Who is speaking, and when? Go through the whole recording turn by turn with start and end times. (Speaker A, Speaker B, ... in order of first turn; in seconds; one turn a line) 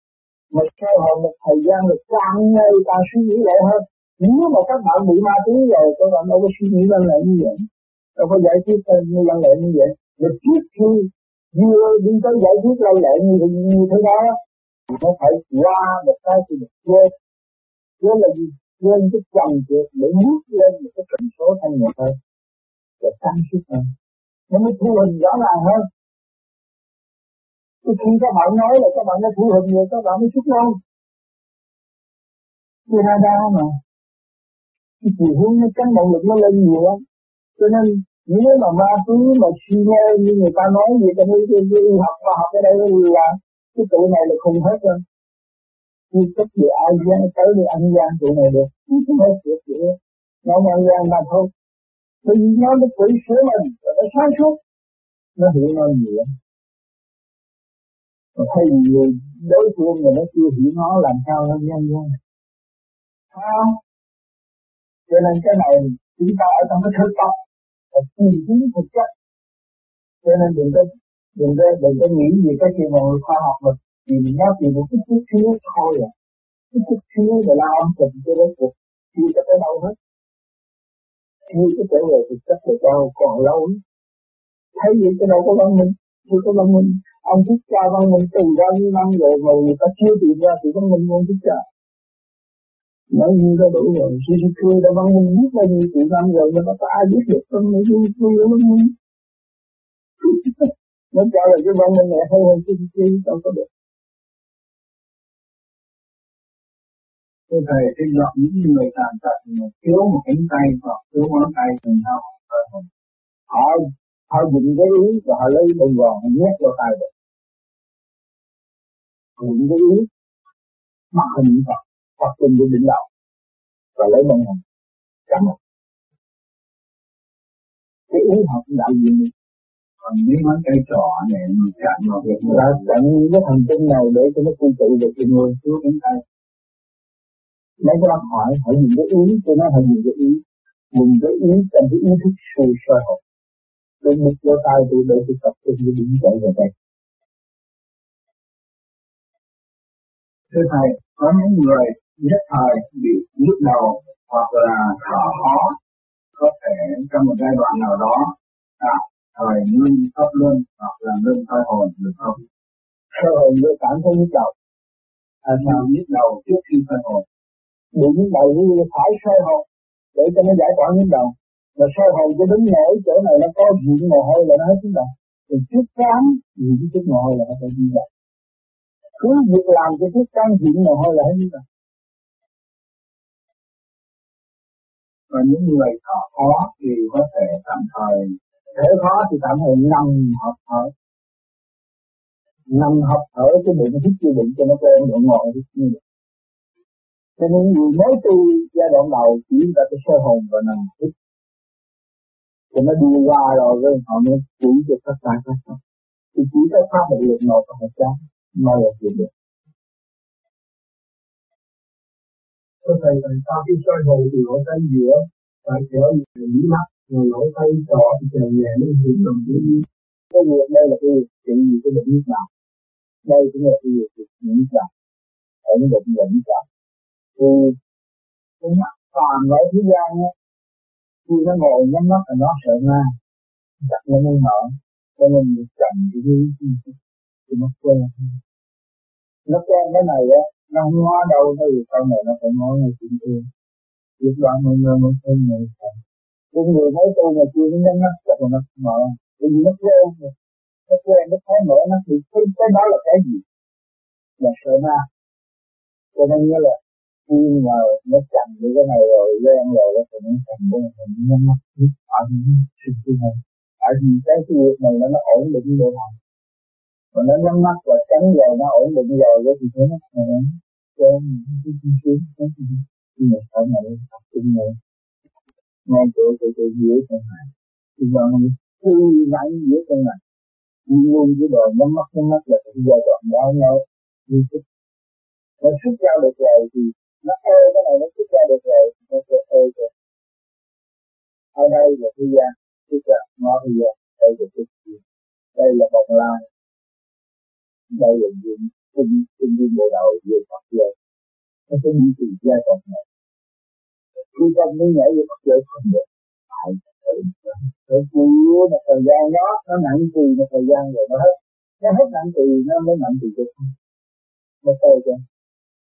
Speaker A: 0.5-14.4
Speaker A: 14.9-17.1
Speaker A: 18.0-22.1
Speaker A: 23.0-23.9
Speaker A: 24.5-25.9
Speaker A: 27.8-30.8
Speaker A: 32.9-33.8
Speaker A: 35.0-37.0
Speaker A: 37.6-45.0
Speaker A: 46.1-51.5
Speaker A: 52.2-54.6
Speaker A: 55.4-56.3
Speaker A: 58.4-62.1
Speaker A: 63.3-63.8
Speaker A: 65.1-67.4
Speaker A: 67.9-69.1
Speaker A: 70.2-76.1
Speaker A: 76.7-80.0
Speaker A: 81.5-83.8
Speaker A: 84.8-91.6
Speaker A: 93.1-98.9
Speaker A: 100.2-103.7
Speaker B: 107.5-112.9
Speaker A: 113.5-117.1
Speaker A: 119.4-120.1
Speaker A: 121.1-123.0
Speaker A: 124.0-124.6
Speaker A: 125.3-125.6
Speaker A: 128.1-129.3
Speaker B: 130.0-132.8
Speaker A: 132.5-136.2
Speaker A: 137.8-143.2
Speaker A: 144.0-146.7
Speaker B: 150.5-155.7
Speaker B: 156.4-162.4
Speaker A: 163.1-164.5
Speaker B: 165.4-167.2
Speaker A: 167.9-178.1
Speaker A: 179.2-181.6
Speaker B: 185.3-188.4
Speaker A: 186.4-186.7
Speaker A: 188.7-190.9
Speaker A: 192.7-196.0
Speaker A: 197.4-201.1
Speaker A: 202.7-205.8
Speaker A: 206.3-209.3
Speaker C: 212.8-219.8
Speaker A: 220.3-222.5
Speaker A: 223.2-224.9
Speaker A: 225.6-226.6
Speaker A: 227.3-227.8
Speaker A: 228.6-230.3
Speaker A: 231.2-233.2
Speaker A: 233.8-237.0
Speaker A: 237.5-238.4
Speaker A: 239.5-243.5
Speaker A: 244.2-246.0
Speaker A: 246.5-250.3
Speaker A: 250.9-253.4
Speaker A: 254.4-255.1
Speaker A: 256.1-266.2
Speaker A: 267.1-274.8
Speaker A: 275.9-280.2
Speaker A: 280.9-284.6
Speaker A: 285.6-289.9
Speaker A: 291.5-295.0
Speaker A: 295.5-296.5
Speaker A: 297.9-300.9
Speaker A: 301.7-303.0
Speaker A: 304.3-313.7
Speaker A: 314.6-315.2